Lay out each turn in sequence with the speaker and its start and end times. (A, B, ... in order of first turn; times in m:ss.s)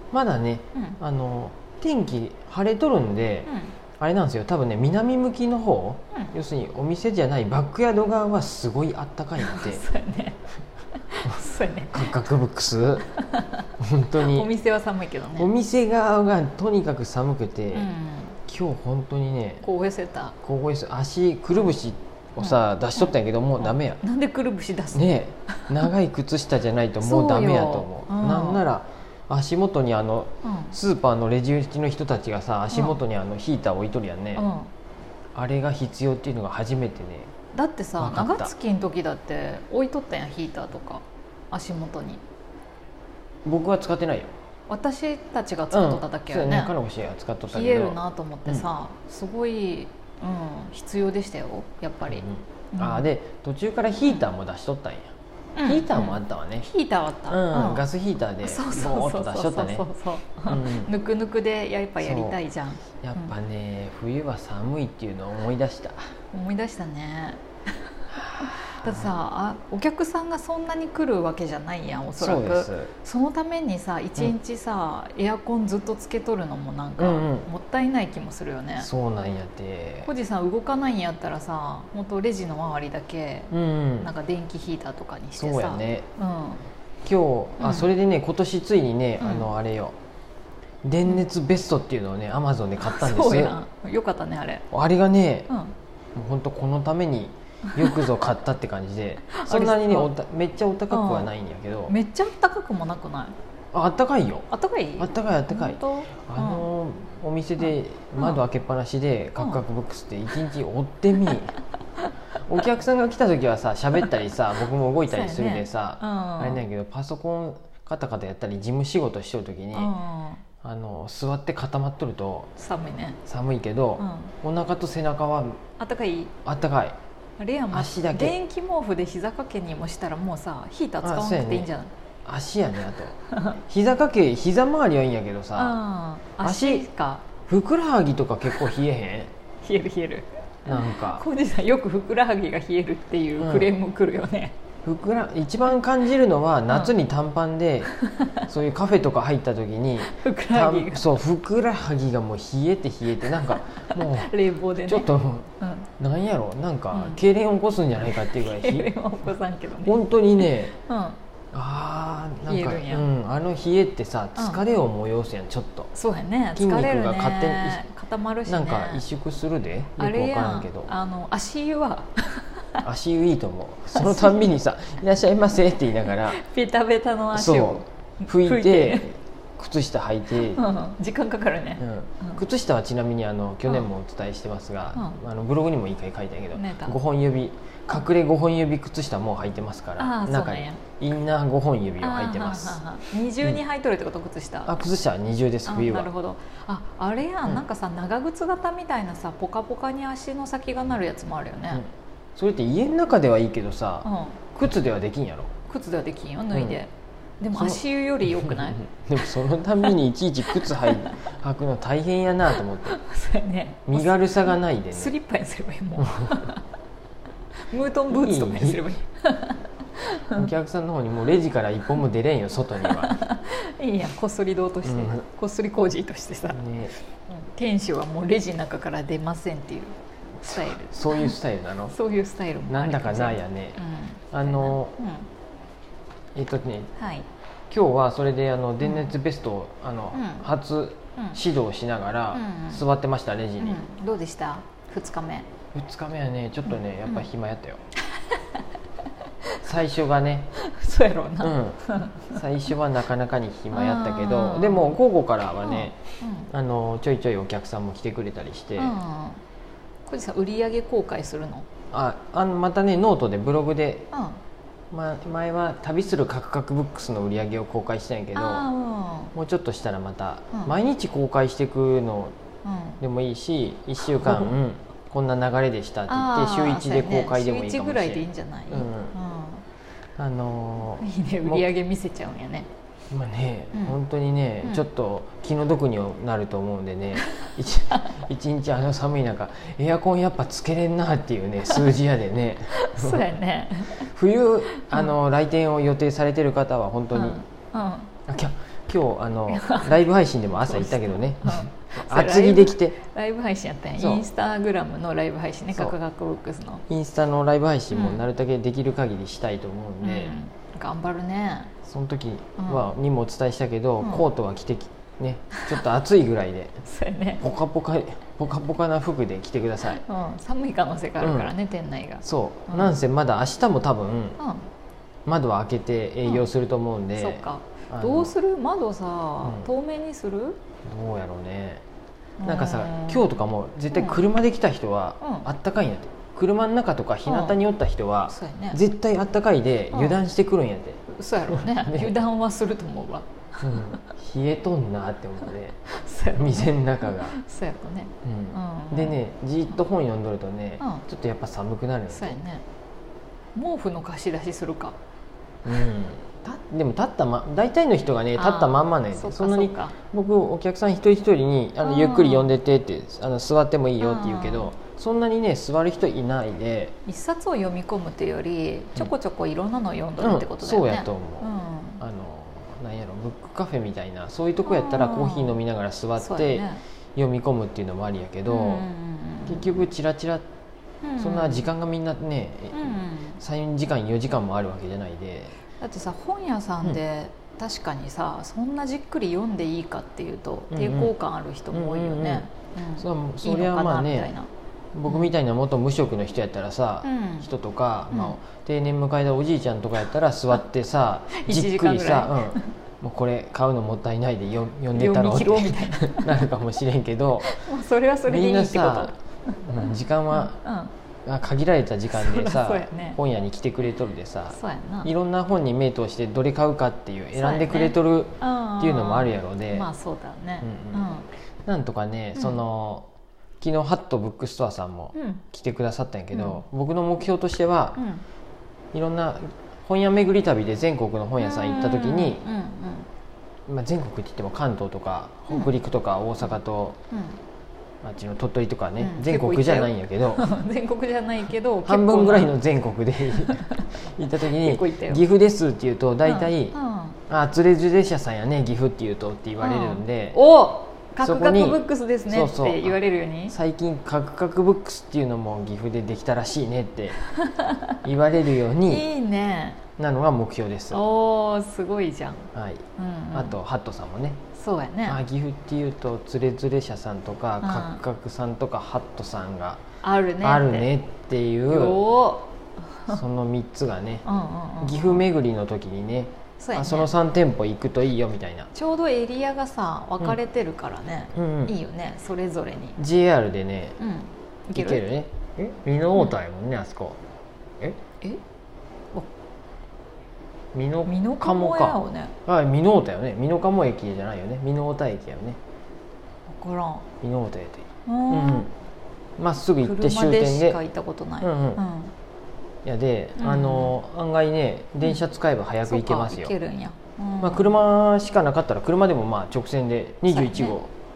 0:00.1-0:09.8 A
0:03.5-0:03.7 B
0:09.4-0:10.4 B
0:11.0-0:12.1 B
0:11.9-0:13.1 A
0:13.2-0:15.5 B
0:13.8-0:14.5 A
0:15.4-0:17.9 A
0:17.7-0:18.4 B
0:18.5-0:19.7 A
0:19.6-0:20.4 B
0:20.4-0:24.0 A
0:22.4-0:25.0 B
0:24.9-0:34.5 A
0:25.5-0:25.9 B
0:27.0-0:28.6 B
0:30.4-0:30.8 B
0:32.7-0:33.0 B
0:34.4-0:34.7 B
0:35.4-0:37.3 A
0:37.5-0:42.2 B
0:38.0-0:38.5 A
0:43.4-0:44.3 A
0:44.7-0:46.7 B
0:45.7-0:48.7 A
0:47.5-0:53.1 B
0:52.1-0:55.1 A
0:55.6-0:57.8 B
0:55.6-0:56.7 A
0:57.3-0:59.9 A
0:58.4-1:03.3 B
1:00.5-1:00.9 A
1:02.0-1:02.4 A
1:03.0-1:06.1 A
1:06.3-1:07.4 B
1:08.1-1:09.1 A
1:08.4-1:18.9 B
1:12.2-1:12.9 A
1:17.0-1:17.5 A
1:18.8-1:20.1 A
1:20.1-1:26.6 B
1:23.5-1:24.1 A
1:25.4-1:26.1 A
1:27.0-1:30.0 A
1:27.6-1:27.9 B
1:29.2-1:29.5 B
1:30.8-1:33.6 A
1:32.8-1:34.7 B
1:34.7-1:35.5 A
1:35.5-1:35.8 B
1:36.2-1:42.0 A
1:37.7-1:38.0 B
1:39.3-1:40.1 B
1:40.9-1:41.3 B
1:41.9-1:43.4 B
1:43.7-1:51.6 A
1:44.5-1:46.6 B
1:48.2-1:48.4 B
1:52.5-1:59.9 A
1:55.1-1:56.6 B
1:59.7-2:00.4 B
2:00.6-2:02.5 A
2:02.6-2:03.2 B
2:03.2-2:05.6 A
2:04.0-2:04.3 B
2:05.8-2:06.3 B
2:06.4-2:07.0 A
2:07.4-2:11.9 B
2:07.7-2:08.4 A
2:11.0-2:11.7 A
2:12.2-2:15.8 A
2:15.6-2:17.3 B
2:16.4-2:16.9 A
2:17.4-2:19.3 A
2:19.6-2:24.6 B
2:20.6-2:21.2 A
2:23.4-2:23.7 A
2:24.8-2:27.9 A
2:27.9-2:28.5 B
2:28.4-2:34.3 A
2:30.1-2:31.1 B
2:33.3-2:35.1 B
2:34.8-2:38.9 A
2:35.6-2:35.9 B
2:36.9-2:37.2 B
2:38.1-2:40.0 B
2:39.8-2:40.8 A
2:40.7-2:41.2 B
2:41.5-2:45.9 A
2:42.4-2:43.1 B
2:44.4-2:44.6 B
2:46.0-2:49.0 B
2:46.6-2:47.8 A
2:48.5-2:50.9 A
2:50.0-2:52.8 B
2:52.8-2:56.4 A
2:53.9-2:54.5 B
2:56.2-2:59.1 B
2:57.3-3:00.6 A
3:00.3-3:02.4 B
3:01.8-3:12.8 A
3:06.5-3:07.0 B
3:10.0-3:10.8 B
3:12.0-3:14.7 B
3:14.6-3:16.1 A
3:15.7-3:21.8 B
3:21.7-3:25.5 A
3:24.0-3:24.4 B
3:25.7-3:28.8 B
3:26.5-3:26.8 A
3:27.5-3:33.0 A
3:30.5-3:31.1 B
3:32.9-3:36.6 B
3:33.9-3:35.2 A
3:36.0-3:36.5 A
3:37.7-3:40.5 B
3:38.1-3:39.0 A
3:40.3-3:43.2 A
3:42.8-3:46.6 B
3:44.8-3:45.2 A
3:46.5-3:46.9 A
3:47.3-3:51.4 B
3:50.4-3:52.0 A
3:51.9-3:55.3 B
3:52.7-3:53.8 A
3:54.3-3:55.0 A
3:56.4-3:56.9 A
3:57.0-3:57.3 B
3:57.7-4:03.8 A
3:58.8-3:59.1 B
4:00.1-4:00.5 B
4:02.3-4:02.8 B
4:03.6-4:05.5 B
4:05.7-4:07.8 A
4:08.1-4:08.6 B
4:09.6-4:10.5 A
4:10.6-4:12.3 B
4:11.4-4:16.0 A
4:13.7-4:15.0 B
4:15.6-4:16.5 B
4:16.5-4:19.0 A
4:18.8-4:19.4 B
4:20.1-4:21.7 B
4:21.9-4:24.1 A
4:24.1-4:24.4 B
4:24.9-4:28.7 A
4:28.3-4:29.3 B
4:29.3-4:32.4 A
4:32.6-4:33.0 B
4:33.0-4:39.2 A
4:34.2-4:34.5 B
4:36.1-4:39.6 B
4:40.2-4:41.7 A
4:41.0-4:42.7 B
4:43.1-4:53.3 A
4:52.7-4:54.1 B
4:54.0-4:57.4 A
4:57.1-4:58.2 B
4:58.3-5:03.0 A
4:59.5-5:00.0 B
5:00.6-5:06.8 B
5:04.0-5:04.3 A
5:06.9-5:10.3 A
5:07.9-5:08.2 B
5:10.0-5:11.7 B
5:11.8-5:16.8 A
5:12.6-5:12.9 B
5:16.8-5:17.4 B
5:17.4-5:20.0 A
5:20.0-5:23.0 B
5:21.2-5:21.5 A
5:22.2-5:24.4 A
5:24.4-5:24.7 B
5:25.3-5:28.3 A
5:26.2-5:26.5 B
5:27.2-5:30.6 B
5:30.8-5:31.8 A
5:32.4-5:33.4 B
5:32.4-5:42.2 A
5:33.9-5:34.2 B
5:35.2-5:35.5 B
5:37.3-5:37.6 B
5:38.3-5:38.8 B
5:39.9-5:40.2 B
5:41.1-5:44.0 B
5:43.6-5:45.8 A
5:45.9-5:49.2 B
5:46.3-5:47.4 A
5:48.2-5:52.4 A
5:52.1-5:52.6 B
5:53.6-5:55.0 B
5:55.6-6:07.0 A
5:58.4-6:00.0 B
6:01.8-6:02.5 B
6:04.0-6:04.7 B
6:07.0-6:12.0 B
6:10.2-6:11.5 A
6:12.0-6:18.9 A
6:14.6-6:15.6 B
6:16.2-6:16.8 B
6:18.5-6:19.8 B
6:19.5-6:20.4 A
6:21.0-6:21.7 B
6:21.2-6:25.6 A
6:22.7-6:23.4 B
6:25.8-6:34.5 B
6:30.7-6:31.1 A
6:31.7-6:34.3 A
6:34.9-6:47.5 A
6:37.0-6:37.5 B
6:38.1-6:38.4 B
6:41.3-6:42.7 B
6:44.9-6:46.5 B
6:47.4-6:49.7 B
6:48.3-6:50.6 A
6:50.3-6:50.9 B
6:51.3-6:59.9 A
6:52.1-6:53.2 B
6:54.5-6:55.1 B
6:57.3-7:01.3 B
7:00.6-7:01.1 A
7:01.7-7:03.1 A
7:03.6-7:08.0 A
7:05.2-7:05.4 B
7:06.3-7:06.6 B
7:08.0-7:08.2 B
7:08.9-7:12.4 A
7:11.4-7:13.1 B
7:13.7-7:17.0 A
7:17.1-7:17.4 B
7:18.0-7:20.5 A
7:19.0-7:22.6 B
7:21.8-7:26.8 A
7:23.3-7:23.8 B
7:24.5-7:25.2 B
7:26.2-7:27.2 B
7:27.3-7:30.4 A
7:29.6-7:33.6 B
7:31.2-7:37.2 A
7:37.4-7:38.0 B
7:38.0-7:39.1 A
7:38.9-7:39.8 B
7:40.0-7:41.0 A
7:40.9-7:43.6 B
7:42.5-7:44.4 A
7:44.6-7:45.2 B
7:45.0-7:49.8 A
7:47.6-7:48.0 B
7:50.0-7:50.9 B
7:50.4-7:52.0 A
7:51.7-7:52.5 B
7:53.1-7:54.3 A
7:54.2-7:55.3 B
7:54.8-7:58.7 A
7:56.6-7:57.1 B
7:58.7-8:03.0 B
8:01.3-8:01.7 A
8:03.0-8:04.0 A
8:04.0-8:05.1 B
8:04.8-8:07.2 A
8:10.7-8:15.6 A
8:11.1-8:12.4 B
8:16.5-8:17.1 B
8:17.2-8:18.7 A
8:18.1-8:18.7 B
8:19.4-8:20.8 A
8:19.8-8:22.1 B
8:21.4-8:21.8 A
8:22.8-8:26.5 A
8:23.4-8:24.0 B
8:25.8-8:27.7 B
8:27.4-8:30.9 A
8:30.3-8:30.8 B